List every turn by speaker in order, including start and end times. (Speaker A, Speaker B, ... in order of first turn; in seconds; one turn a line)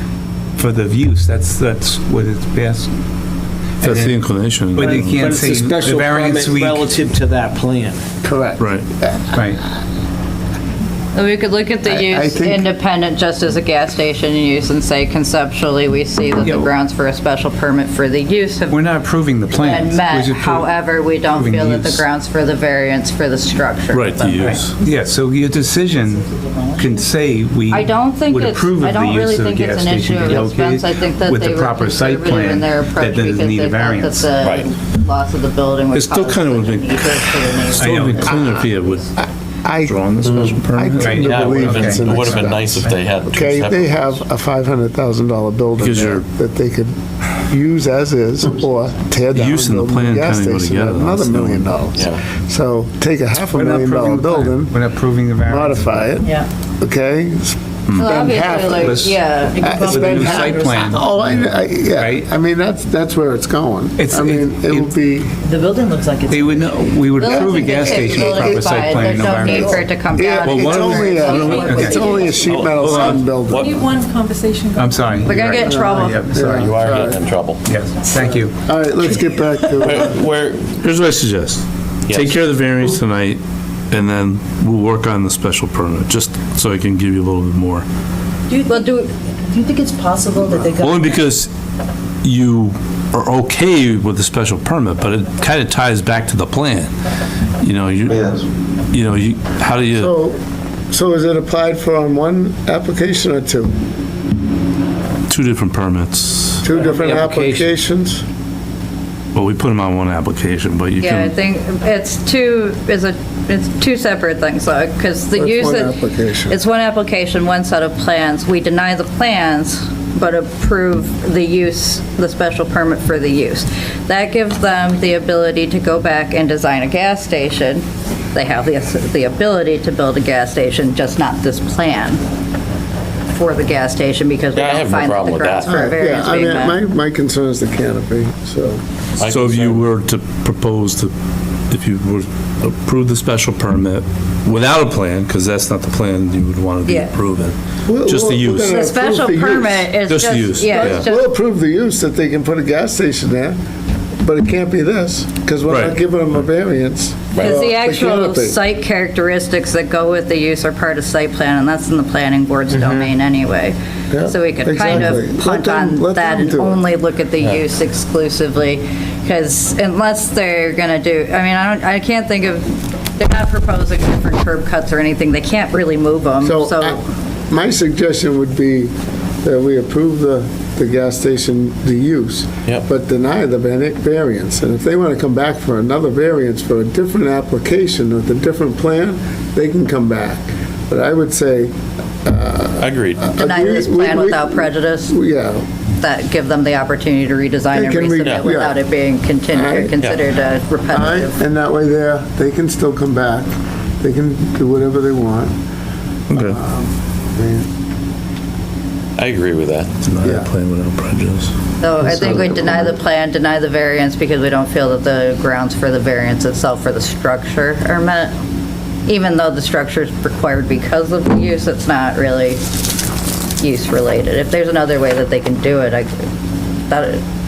Speaker A: 0.6-2.9
Speaker A: 3.8-4.2
Speaker B: 3.8-5.6
Speaker A: 4.7-6.9
Speaker C: 4.8-8.0
Speaker D: 8.2-9.4
Speaker B: 8.6-8.8
Speaker A: 9.3-9.6
Speaker E: 11.1-18.8
Speaker D: 11.8-12.7
Speaker A: 16.4-16.7
Speaker A: 18.7-22.0
Speaker E: 19.5-24.6
Speaker B: 23.9-24.7
Speaker A: 24.5-34.3
Speaker F: 25.9-26.9
Speaker E: 27.7-38.7
Speaker G: 34.4-34.7
Speaker B: 35.9-39.1
Speaker A: 37.8-38.3
Speaker D: 39.2-54.8
Speaker B: 39.8-41.9
Speaker A: 41.0-42.9
Speaker G: 41.2-44.2
Speaker B: 45.8-46.2
Speaker B: 49.3-51.7
Speaker G: 51.9-52.2
Speaker A: 53.5-56.1
Speaker D: 55.5-65.3
Speaker F: 56.2-56.5
Speaker E: 58.0-59.7
Speaker A: 58.7-62.3
Speaker F: 59.5-61.0
Speaker A: 64.0-64.9
Speaker F: 65.4-66.8
Speaker A: 66.3-69.8
Speaker E: 67.2-72.4
Speaker D: 67.2-73.8
Speaker B: 70.4-72.0
Speaker F: 71.1-73.2
Speaker A: 71.6-72.2
Speaker C: 72.5-72.7
Speaker G: 72.5-72.8
Speaker B: 72.7-73.3
Speaker G: 73.5-73.8
Speaker F: 73.9-74.9
Speaker A: 74.8-76.7
Speaker E: 75.2-76.3
Speaker D: 75.5-77.2
Speaker G: 76.5-77.6
Speaker A: 77.7-78.5
Speaker D: 78.2-80.2
Speaker G: 79.8-80.8
Speaker B: 80.8-83.4
Speaker G: 82.1-82.4
Speaker B: 83.9-87.8
Speaker F: 88.5-88.9
Speaker E: 88.7-89.1
Speaker F: 89.5-91.2
Speaker B: 90.7-91.5
Speaker B: 92.2-96.9
Speaker B: 97.6-100.1
Speaker D: 100.0-100.4
Speaker D: 100.9-103.7
Speaker B: 105.3-106.7
Speaker D: 106.6-108.2
Speaker C: 106.7-107.7
Speaker B: 109.3-111.3
Speaker E: 111.0-132.2
Speaker D: 115.3-116.6
Speaker E: 133.3-136.8
Speaker G: 134.5-135.7
Speaker D: 135.7-138.8
Speaker G: 139.2-139.8
Speaker B: 139.2-141.1
Speaker B: 141.7-148.7
Speaker E: 146.8-147.1
Speaker D: 147.8-149.9
Speaker E: 148.7-151.2
Speaker B: 150.1-151.1
Speaker D: 150.6-153.6
Speaker D: 154.2-158.6
Speaker B: 155.7-156.0
Speaker E: 157.4-177.0
Speaker D: 164.1-166.8
Speaker D: 176.4-195.7
Speaker G: 192.8-193.3
Speaker E: 193.4-195.2
Speaker E: 196.0-201.4
Speaker D: 197.7-198.8
Speaker D: 199.5-199.9
Speaker D: 200.9-205.6
Speaker B: 206.3-206.6
Speaker D: 206.3-207.7
Speaker G: 209.2-209.9
Speaker B: 210.0-211.5
Speaker D: 210.2-210.5
Speaker E: 211.8-218.3
Speaker D: 212.0-212.9
Speaker E: 219.1-222.6
Speaker E: 223.6-226.1
Speaker E: 226.9-227.2